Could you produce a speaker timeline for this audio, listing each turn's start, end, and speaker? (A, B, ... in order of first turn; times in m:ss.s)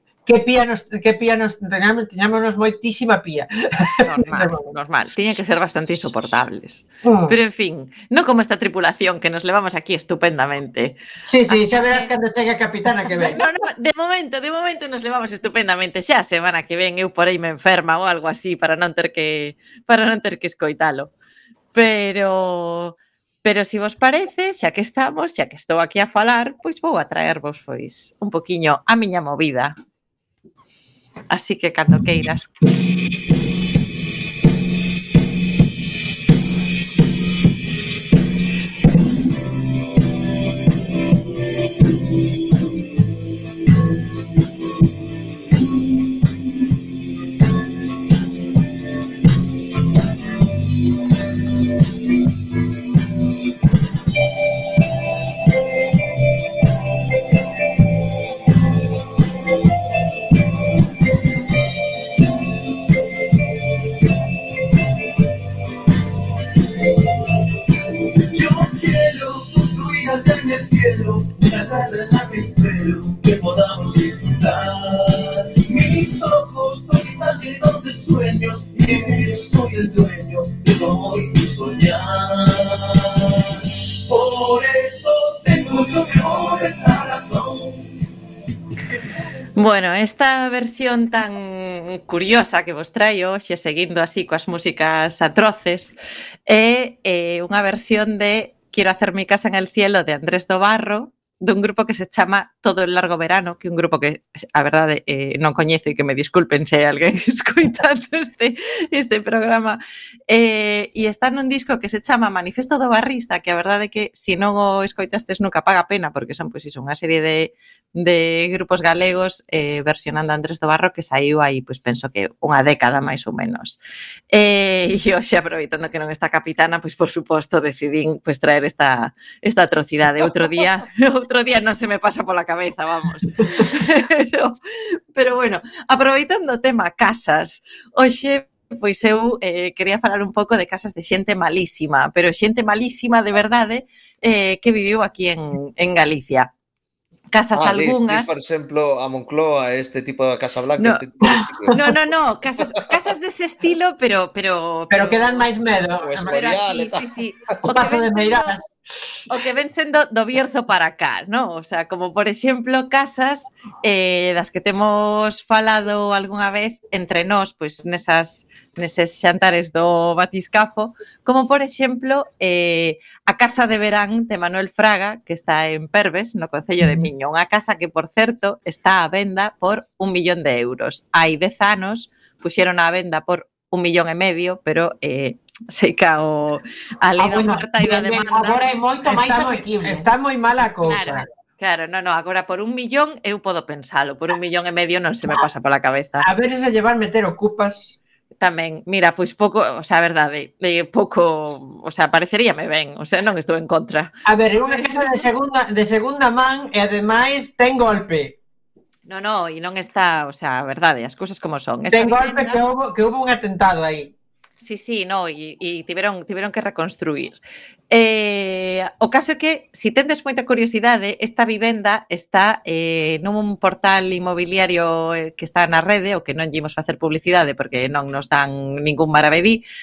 0:00.2-0:04.5 A
0:04.0-0:11.0 B
0:07.0-0:07.3 A
0:11.2-0:13.4 A
0:11.5-0:12.1 B
0:13.1-0:21.1 B
0:21.7-0:29.7 B
0:31.3-0:32.5 B
1:09.1-1:09.5 C
1:10.1-1:13.8 C
1:16.0-1:18.7 C
1:19.3-1:20.2 C
1:25.5-1:25.9 C
1:26.7-1:27.0 C
1:29.6-1:36.0 B
1:36.5-2:03.8 B
2:04.3-2:14.6 B
2:15.1-2:26.5 B
2:27.3-2:28.3 B
2:27.5-2:31.7 D
2:30.8-2:31.1 B
2:31.7-2:35.5 B
2:34.9-2:36.4 A
2:36.0-2:37.1 D
2:36.1-2:38.6 B
2:37.6-2:38.6 A
2:39.3-3:08.6 B
3:07.2-3:07.7 E
3:07.8-3:08.5 A
3:08.3-3:10.1 E
3:09.0-3:11.2 A
3:10.8-3:16.3 B
3:16.2-3:18.0 A
3:18.4-3:24.1 B
3:24.3-3:28.4 A
3:24.7-3:25.3 B
3:29.1-3:32.6 B
3:31.9-3:34.1 A
3:34.6-3:37.4 B
3:37.9-3:49.6 B